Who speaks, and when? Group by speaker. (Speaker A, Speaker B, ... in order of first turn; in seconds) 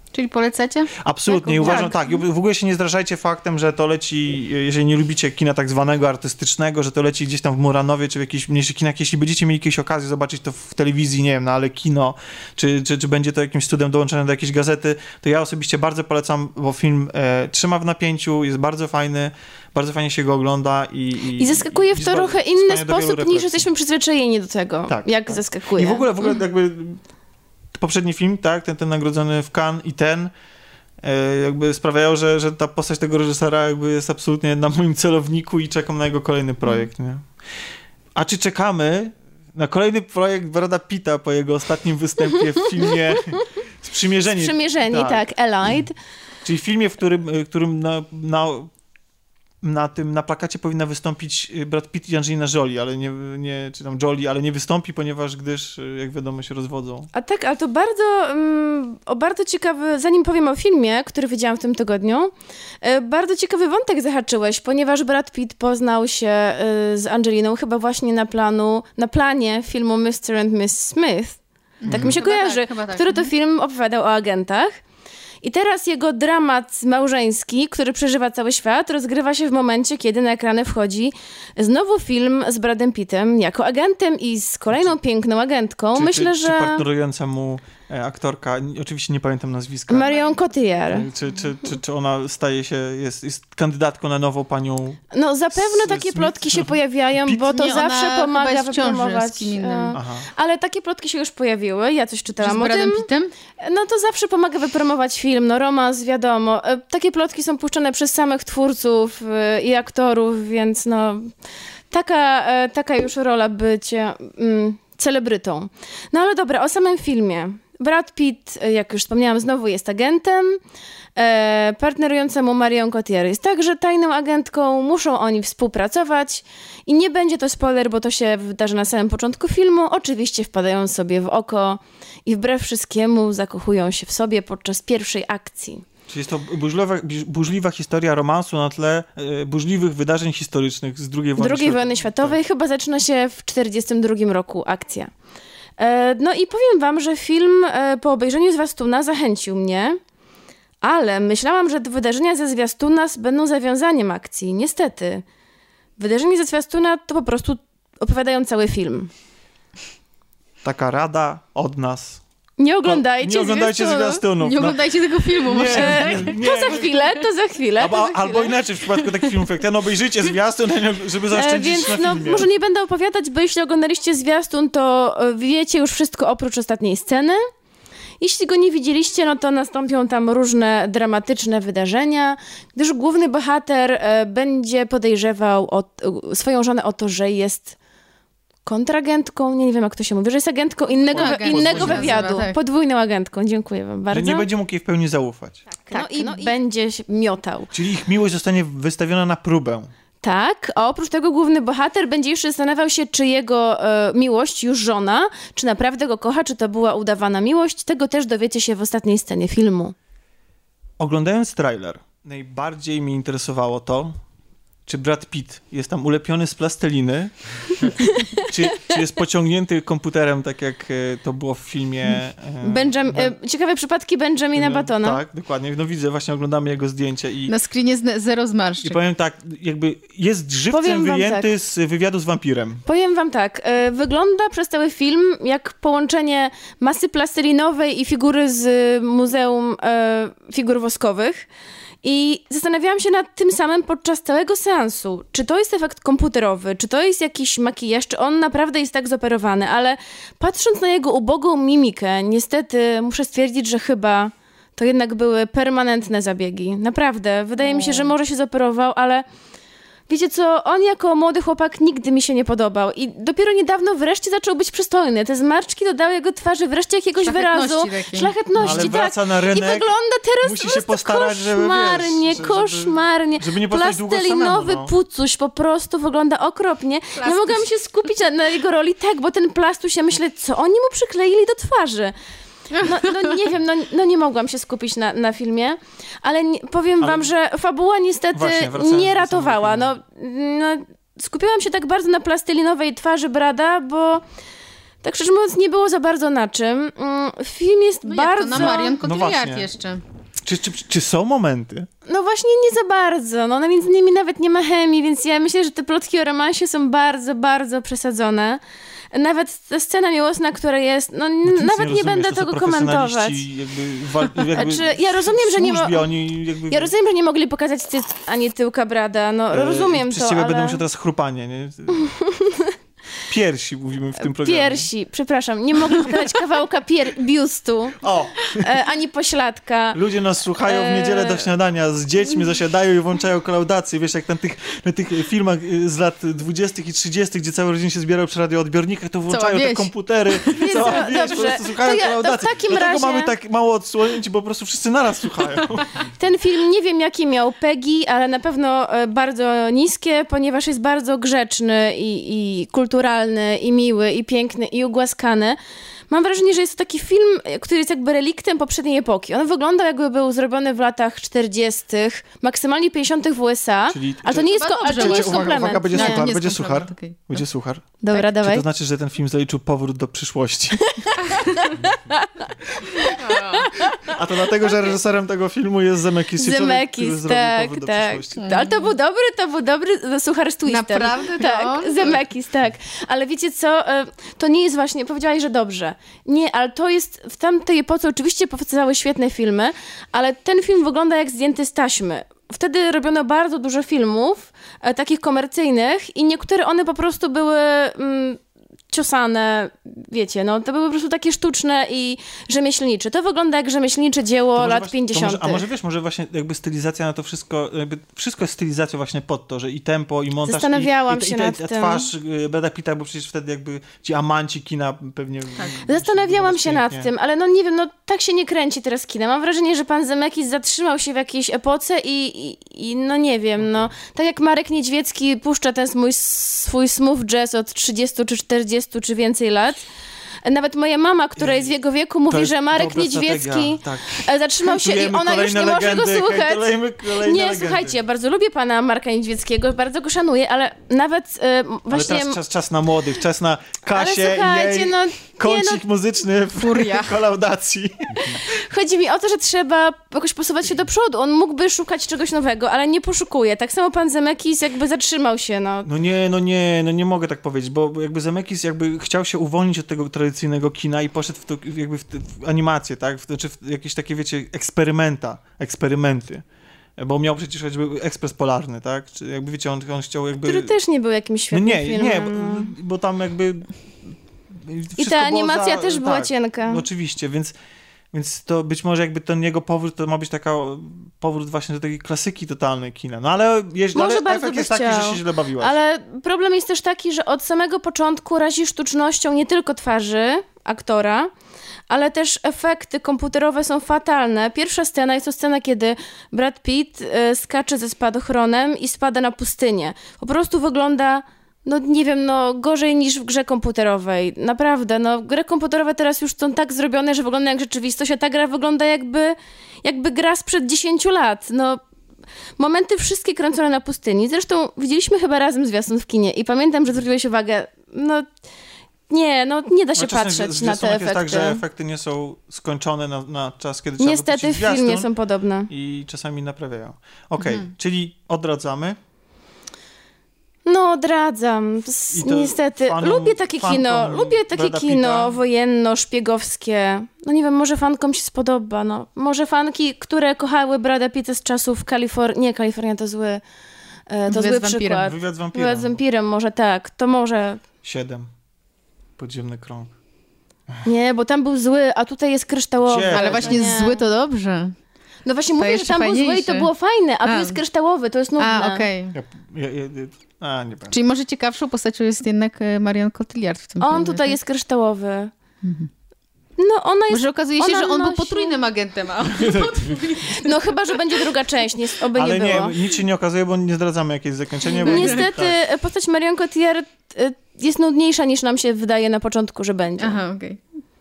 Speaker A: 0.1-2.2, 71.8-73.3, 97.5-100.0, 102.4-103.3, 164.4-166.9, 191.1-192.6, 195.8-196.5, 227.5-229.0, 257.6-258.1, 267.2-268.9, 277.2-277.7, 282.7-283.3, 298.0-300.0, 339.3-341.1, 364.4-367.4, 373.1-373.7, 378.4-378.9, 380.6-382.2, 415.6-415.8, 446.6-447.2, 527.4-527.7, 544.3-545.1, 553.1-554.7, 555.6-556.7, 557.2-557.6, 558.4-559.1, 560.9-564.4, 565.6-565.9, 567.1-571.2, 574.7-575.2, 580.0-580.6
Speaker B: 1.0-23.7, 24.9-27.0, 27.7-30.3, 31.0-37.3, 38.1-45.2, 46.4-48.7, 49.6-57.1, 71.9-72.2, 85.9-90.2, 90.9-95.0, 95.5-97.5, 99.9-100.3, 136.1-142.4, 160.6-162.2, 162.8-164.8, 165.4-166.9, 167.8-172.5, 191.1-192.3, 194.1-195.6, 197.7-199.9, 211.0-214.1, 214.8-217.8, 218.4-223.3, 224.5-227.5, 228.8-232.8, 268.6-269.9, 270.4-274.9, 287.0-287.3, 288.3-289.9, 298.5-299.7, 300.4-301.9, 311.4-316.9, 319.5-322.1, 323.3-324.9, 328.0-328.6, 329.9-345.9, 363.9-371.1, 374.1-378.5, 404.5-417.1, 431.4-431.7, 432.3-438.0, 441.9-448.4, 455.8-466.4, 467.0-470.7, 471.5-477.5, 478.1-485.8, 520.0-525.1, 525.7-529.0, 532.1-535.4, 545.0-546.0, 547.8-548.3, 549.2-549.9, 552.8-553.6, 559.1-560.9, 569.4-569.8, 572.1-575.5
Speaker C: 1.6-1.9, 21.4-26.1, 44.3-46.0, 57.1-74.7, 75.4-86.8, 89.9-91.1, 95.1-103.1, 103.6-111.3, 111.9-120.6, 121.2-135.8, 141.4-145.1, 145.8-150.0, 150.8-155.2, 156.0-159.1, 162.6-164.2, 165.6-168.5, 171.3-177.4, 178.2-187.8, 188.7-194.5, 195.9-197.7, 200.2-209.9, 222.6-225.2, 230.7-231.5, 232.8-241.5, 242.0-259.2, 260.1-282.1, 282.7-294.2, 295.0-299.0, 302.1-308.6, 309.1-313.4, 314.5-316.1, 316.7-320.8, 321.9-322.7, 324.2-328.0, 328.5-330.0, 330.6-331.4, 340.6-343.3, 346.2-355.6, 356.1-366.3, 368.0-368.6, 370.9-372.3, 372.9-374.1, 376.4-398.4, 398.9-405.6, 410.4-412.1, 415.8-429.8, 430.4-442.4, 443.9-445.8, 448.4-455.9, 470.4-472.7, 475.0-476.8, 483.9-491.3, 491.9-511.8, 512.6-518.3, 519.1-521.6, 524.0-525.7, 530.6-543.4, 544.1-547.6, 550.8-554.0, 555.2-558.8, 563.8-565.3, 566.6-568.6, 570.3-572.7, 574.8-580.2